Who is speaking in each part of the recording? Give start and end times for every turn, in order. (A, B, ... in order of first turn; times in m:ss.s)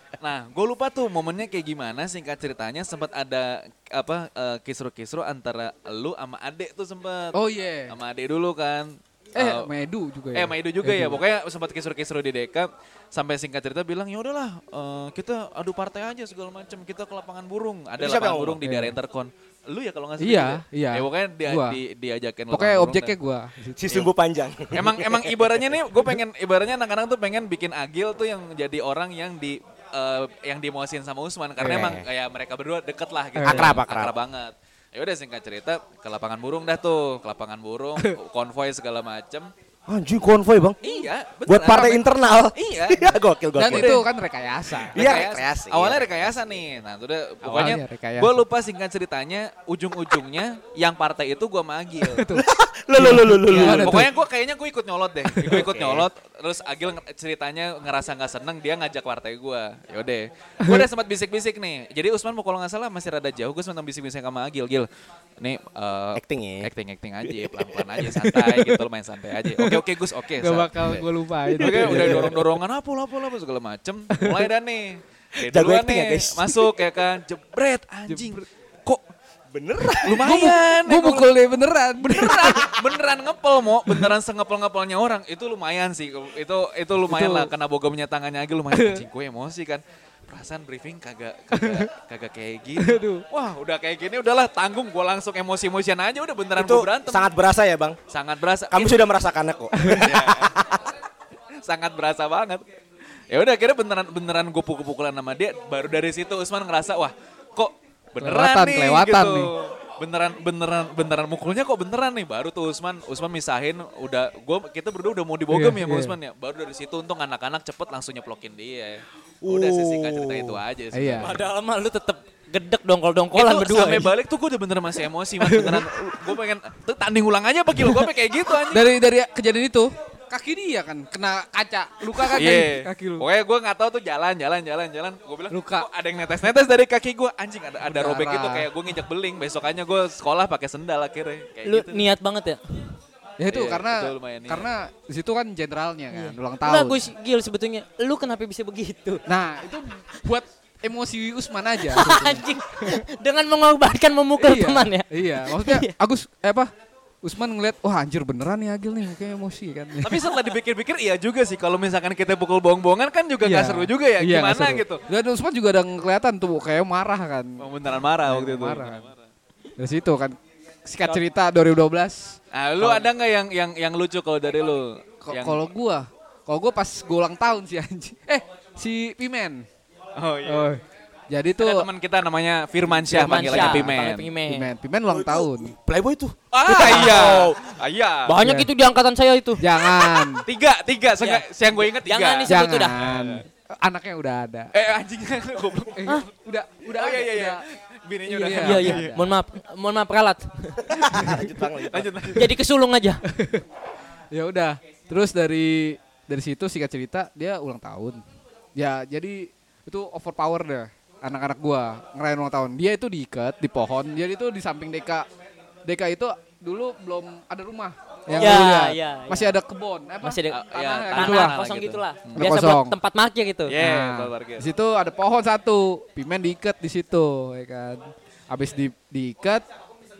0:00.2-0:07.3 A
0:07.3-0:07.9 B
0:07.9-0:09.7 A
0:09.4-0:11.2 B
0:10.3-0:23.1 A
0:18.0-0:18.6 C
0:18.6-0:18.9 B
0:20.2-0:21.8 B
0:22.5-0:23.8 B
0:23.8-0:25.7 C
0:24.7-0:39.5 A
0:31.6-0:32.0 C
0:31.6-0:31.9 B
0:33.4-0:33.8 B
0:33.4-0:34.1 C
0:39.9-0:40.8 C
0:40.8-0:44.0 A
0:41.4-0:44.0 C
0:43.6-0:45.1 B
0:44.9-0:46.6 C
0:44.9-0:52.3 A
0:47.4-0:48.4 B
0:52.0-0:54.1 B
0:52.4-0:54.1 C
0:53.5-1:04.9 A
0:55.4-0:56.1 C
1:05.4-1:19.0 A
1:06.1-1:06.7 C
1:07.2-1:07.6 C
1:08.1-1:08.8 B
1:09.5-1:09.8 B
1:10.4-1:12.4 B
1:11.6-1:12.3 C
1:14.1-1:14.4 B
1:15.4-1:16.6 C
1:18.1-1:18.4 B
1:19.5-1:20.3 C
1:20.0-1:21.3 A
1:20.2-1:22.7 B
1:22.0-1:37.3 A
1:27.1-1:27.5 B
1:28.7-1:29.0 B
1:31.5-1:31.9 B
1:32.8-1:33.2 B
1:36.6-1:38.0 C
1:38.1-1:39.0 A
1:38.7-1:40.9 C
1:39.8-1:40.0 B
1:39.9-1:40.6 A
1:41.6-1:42.6 A
1:43.3-2:01.4 A
1:48.2-1:49.5 B
1:55.5-1:56.1 B
1:59.4-2:00.6 C
2:00.9-2:01.4 B
2:01.2-2:04.1 D
2:03.3-2:08.9 A
2:05.4-2:05.8 B
2:08.7-2:13.2 B
2:12.1-2:22.1 A
2:15.5-2:15.9 B
2:17.8-2:18.7 B
2:21.6-2:23.0 D
2:23.4-2:27.0 B
2:23.5-2:24.7 A
2:26.1-2:29.2 D
2:29.3-2:33.0 B
2:31.8-2:35.9 D
2:34.4-2:36.7 B
2:37.2-2:40.3 B
2:40.0-2:45.0 A
2:43.4-2:47.6 B
2:47.6-2:49.2 A
2:48.2-2:49.1 B
2:49.8-2:53.1 B
2:52.5-2:55.6 A
2:55.2-2:59.6 B
3:00.2-3:00.7 A
3:00.4-3:01.9 B
3:01.6-3:04.3 A
3:02.9-3:03.9 B
3:03.1-3:04.7 D
3:04.4-3:05.7 B
3:05.1-3:07.6 C
3:06.5-3:08.4 A
3:06.8-3:07.2 D
3:08.2-3:09.6 D
3:08.4-3:08.7 B
3:09.6-3:10.4 B
3:10.3-3:13.4 A
3:11.2-3:13.0 D
3:12.5-3:14.7 B
3:14.7-3:16.1 A
3:15.9-3:17.6 B
3:16.9-3:19.3 A
3:18.3-3:19.2 B
3:18.4-3:20.9 D
3:20.8-3:22.2 C
3:21.2-3:22.6 A
3:22.3-3:23.2 D
3:23.3-3:23.6 B
3:24.3-3:28.2 B
3:28.8-3:35.2 B
3:35.8-3:41.6 B
3:38.3-3:39.6 D
3:40.2-3:43.7 D
3:40.5-3:42.4 A
3:42.4-3:43.0 B
3:43.7-3:44.6 A
3:43.7-3:49.6 B